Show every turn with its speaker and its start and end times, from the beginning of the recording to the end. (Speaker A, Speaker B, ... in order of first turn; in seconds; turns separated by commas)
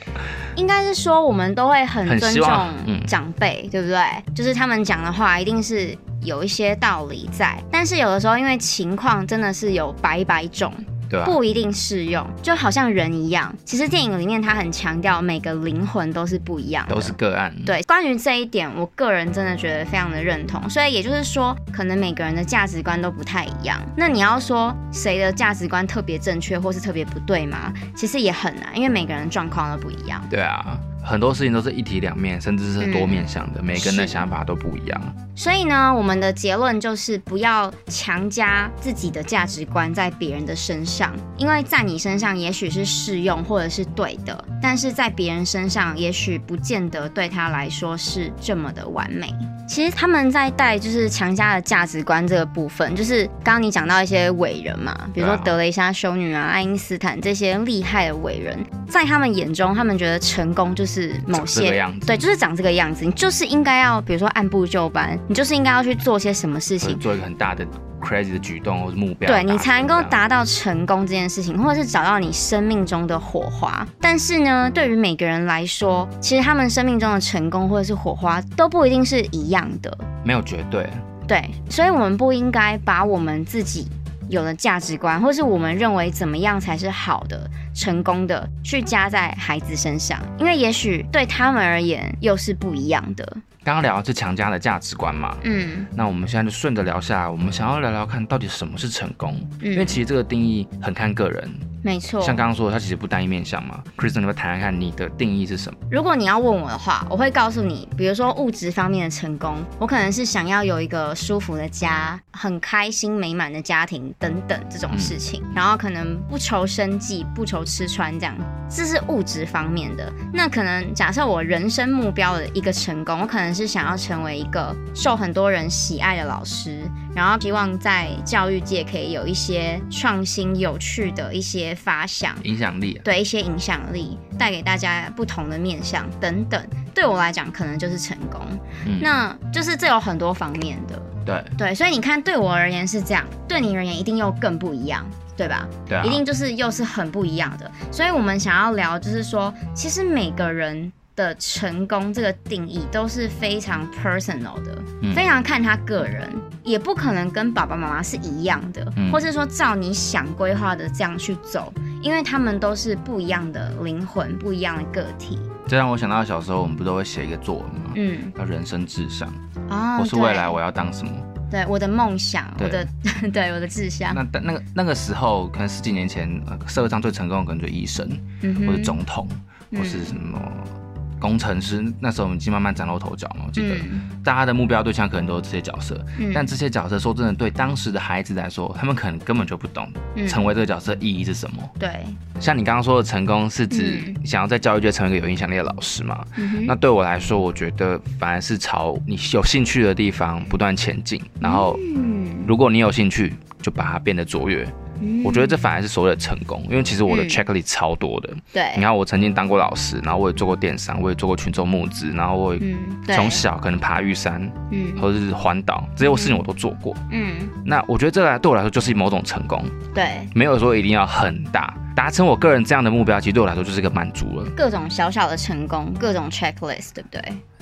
Speaker A: 0.6-30.3, Speaker B: 2.1-3.1, Speaker B: 11.1-11.4, Speaker B: 16.9-17.8, Speaker B: 30.3-35.1, Speaker A: 32.8-34.2, Speaker A: 35.4-67.0, Speaker B: 55.2-55.5, Speaker B: 61.3-62.2, Speaker B: 66.8-70.2, Speaker A: 69.2-80.0, Speaker B: 80.2-81.0, Speaker A: 81.3-93.4, Speaker B: 93.7-95.4, Speaker A: 95.4-95.9, Speaker B: 95.9-101.6, Speaker A: 99.6-100.0, Speaker A: 101.8-102.5, Speaker B: 102.2-105.8, Speaker A: 105.9-132.4, Speaker B: 114.9-115.2, Speaker B: 132.4-133.1, Speaker A: 133.0-165.5, Speaker B: 138.8-139.1, Speaker B: 141.3-141.6, Speaker B: 145.9-146.2, Speaker B: 159.0-159.3, Speaker B: 165.7-169.4, Speaker A: 167.9-168.3, Speaker A: 169.7-170.6, Speaker B: 170.0-171.3, Speaker A: 171.5-174.2, Speaker B: 172.6-172.9, Speaker B: 174.1-191.7, Speaker A: 178.4-179.0, Speaker A: 179.7-180.2, Speaker A: 183.6-184.1, Speaker A: 186.2-186.5, Speaker A: 190.2-190.5, Speaker A: 191.8-192.2, Speaker B: 192.4-201.8, Speaker A: 193.7-194.2, Speaker A: 196.4-196.8, Speaker A: 201.4-202.5, Speaker B: 202.4-204.7, Speaker A: 205.0-205.7, Speaker B: 205.2-217.0, Speaker A: 207.1-207.5, Speaker A: 208.5-208.8, Speaker A: 212.6-213.4, Speaker A: 214.7-215.1, Speaker A: 216.0-216.4, Speaker A: 217.1-217.5, Speaker B: 217.6-219.7, Speaker A: 219.9-220.3, Speaker B: 220.3-224.6, Speaker A: 224.6-227.4